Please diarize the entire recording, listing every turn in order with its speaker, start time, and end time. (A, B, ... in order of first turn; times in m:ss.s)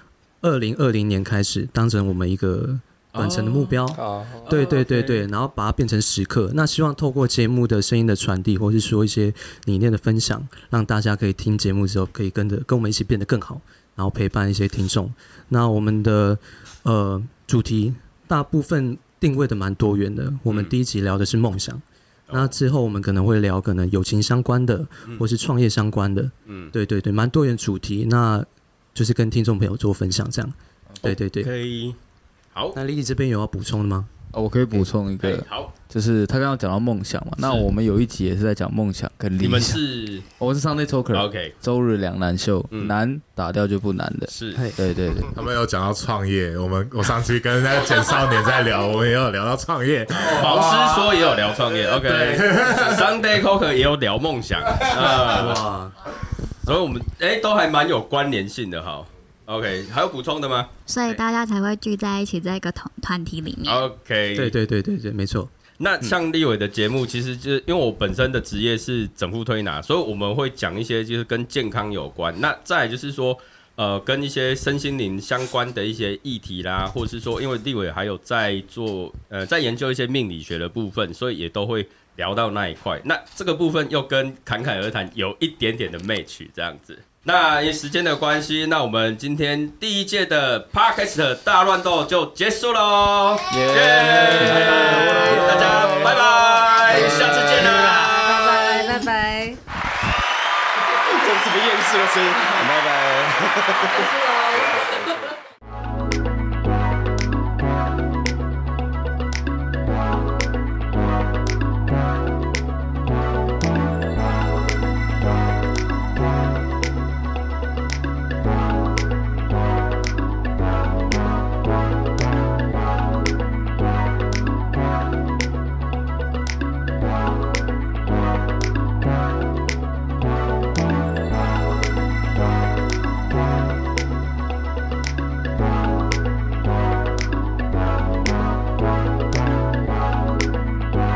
0:00.4-0:31.5 A
0:03.1-0:03.9 B
0:04.0-0:04.7 C
0:04.5-0:05.2 B
0:20.5-0:20.8 B
0:22.3-0:22.6 B
0:26.5-0:26.7 B
0:31.0-0:32.0 B
0:32.7-0:34.1 A
0:34.3-0:39.8 D
0:34.7-0:35.7 B
0:37.4-0:37.7 B
0:39.4-0:40.3 B
0:40.4-0:45.3 D
0:41.1-0:41.5 B
0:44.3-0:44.6 B
0:44.6-0:44.8 A
0:45.3-0:53.2 E
0:50.1-0:55.7 B
0:55.3-0:55.9 A
0:56.6-1:01.2 B
1:00.9-1:03.9 F
1:03.7-1:04.6 B
1:04.4-1:05.5 A
1:05.8-1:38.4 B
1:33.5-1:37.9 D
1:34.6-1:35.9 C
1:37.1-1:38.2 C
1:37.8-1:39.6 G
1:40.8-1:44.2 C
1:43.8-1:45.1 G
1:44.7-1:45.0 C